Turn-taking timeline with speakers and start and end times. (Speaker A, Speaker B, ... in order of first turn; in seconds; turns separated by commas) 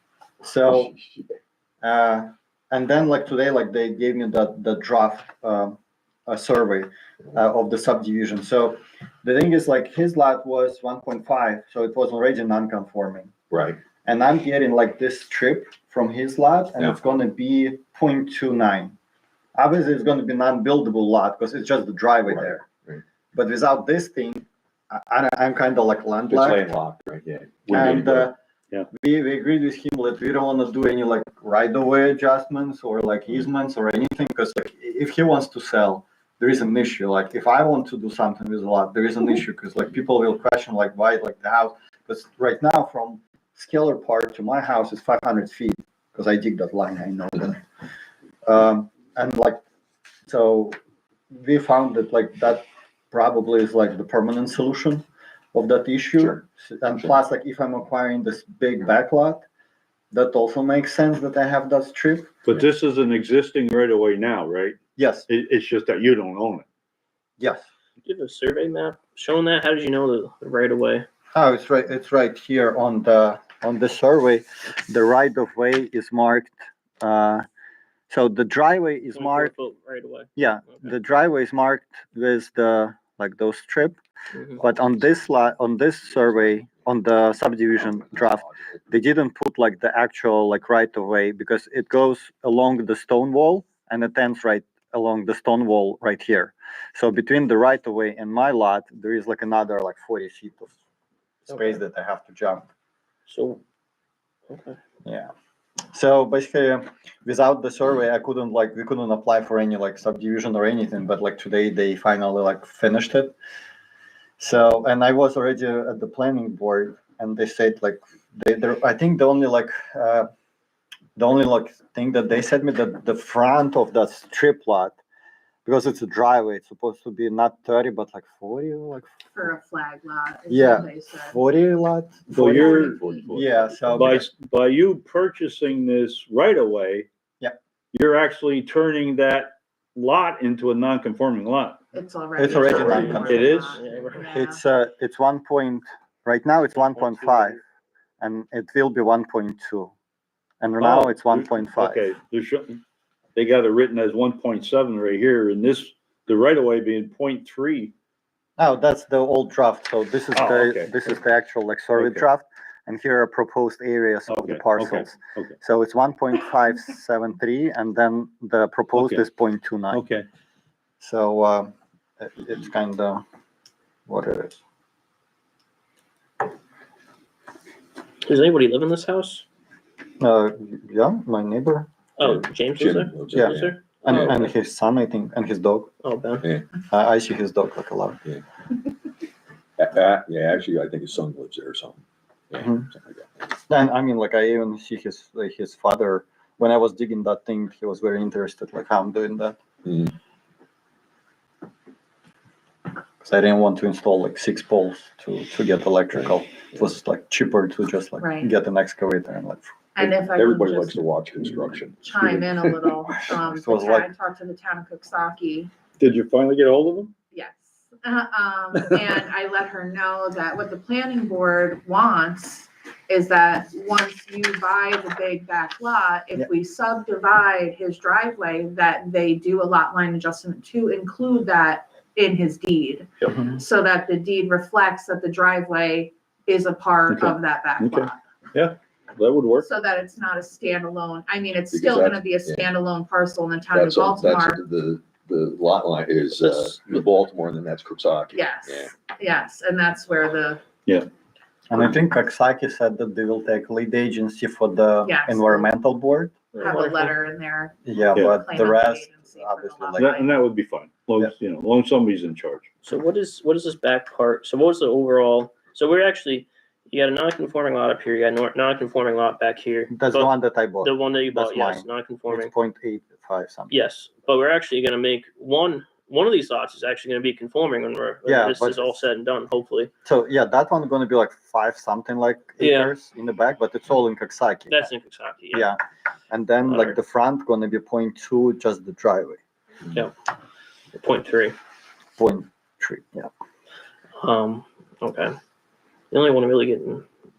Speaker A: 0.4-0.9, Speaker B: 0.7-1.3, Speaker A: 1.8-13.3, Speaker B: 13.5-13.8, Speaker A: 14.0-18.9, Speaker A: 19.6-22.7, Speaker A: 23.4-26.6, Speaker B: 26.3-28.3, Speaker A: 27.7-28.4, Speaker A: 29.0-47.6, Speaker A: 48.5-49.6, Speaker A: 50.3-50.8, Speaker A: 51.3-59.5, Speaker A: 60.1-62.3, Speaker C: 62.5-64.8, Speaker A: 65.0-65.3, Speaker C: 65.3-66.7, Speaker A: 67.4-67.7, Speaker D: 68.0-71.1, Speaker A: 71.3-77.5, Speaker A: 78.1-79.5, Speaker D: 79.2-80.3, Speaker A: 80.4-84.0, Speaker A: 84.6-100.8, Speaker B: 84.7-85.3, Speaker B: 86.2-86.7, Speaker B: 87.9-88.7, Speaker A: 101.5-102.7, Speaker D: 103.3-103.6, Speaker D: 104.5-104.8, Speaker A: 105.0-105.3, Speaker A: 105.9-113.3, Speaker A: 114.4-120.3, Speaker A: 121.2-125.0, Speaker A: 125.7-129.1, Speaker E: 129.3-131.4, Speaker A: 130.5-134.3, Speaker C: 132.3-137.1, Speaker E: 132.5-133.3, Speaker C: 137.9-141.8, Speaker E: 141.9-144.6, Speaker A: 142.4-143.6, Speaker D: 142.6-144.3, Speaker C: 143.0-143.8, Speaker A: 144.3-147.6, Speaker D: 146.9-147.6, Speaker A: 148.2-149.9, Speaker A: 150.6-152.1, Speaker C: 150.8-152.8, Speaker C: 153.3-157.9, Speaker A: 158.6-170.0, Speaker C: 160.3-160.9, Speaker C: 162.0-162.3, Speaker C: 164.3-165.5, Speaker C: 169.0-169.2, Speaker C: 169.9-170.3, Speaker A: 171.0-173.2, Speaker A: 174.1-174.6, Speaker D: 178.2-179.4, Speaker A: 180.2-181.9, Speaker D: 182.2-184.5, Speaker B: 182.2-184.2, Speaker A: 183.3-185.9, Speaker D: 186.0-186.4, Speaker B: 186.4-186.7, Speaker A: 186.8-188.2, Speaker B: 189.8-193.3, Speaker A: 193.7-199.6, Speaker A: 203.2-209.7, Speaker E: 208.2-208.5, Speaker E: 209.9-211.0, Speaker B: 210.0-212.9, Speaker E: 212.0-215.7, Speaker A: 213.3-214.1, Speaker C: 216.0-217.1, Speaker E: 217.3-238.2, Speaker C: 237.1-239.7, Speaker E: 239.6-244.6, Speaker B: 241.7-242.7, Speaker B: 243.7-248.9, Speaker E: 248.3-250.7, Speaker A: 251.7-256.3, Speaker E: 255.1-255.7, Speaker D: 256.5-257.1, Speaker E: 256.6-260.4, Speaker A: 257.9-260.2, Speaker C: 259.9-262.7, Speaker D: 262.8-272.5, Speaker A: 269.9-273.7, Speaker D: 273.7-279.9, Speaker A: 278.3-278.9, Speaker A: 280.1-284.9, Speaker D: 282.6-282.9, Speaker D: 284.7-285.7, Speaker A: 285.5-289.4, Speaker D: 286.6-287.0, Speaker D: 290.9-291.6, Speaker A: 292.2-293.3, Speaker D: 294.2-295.4, Speaker D: 296.1-297.1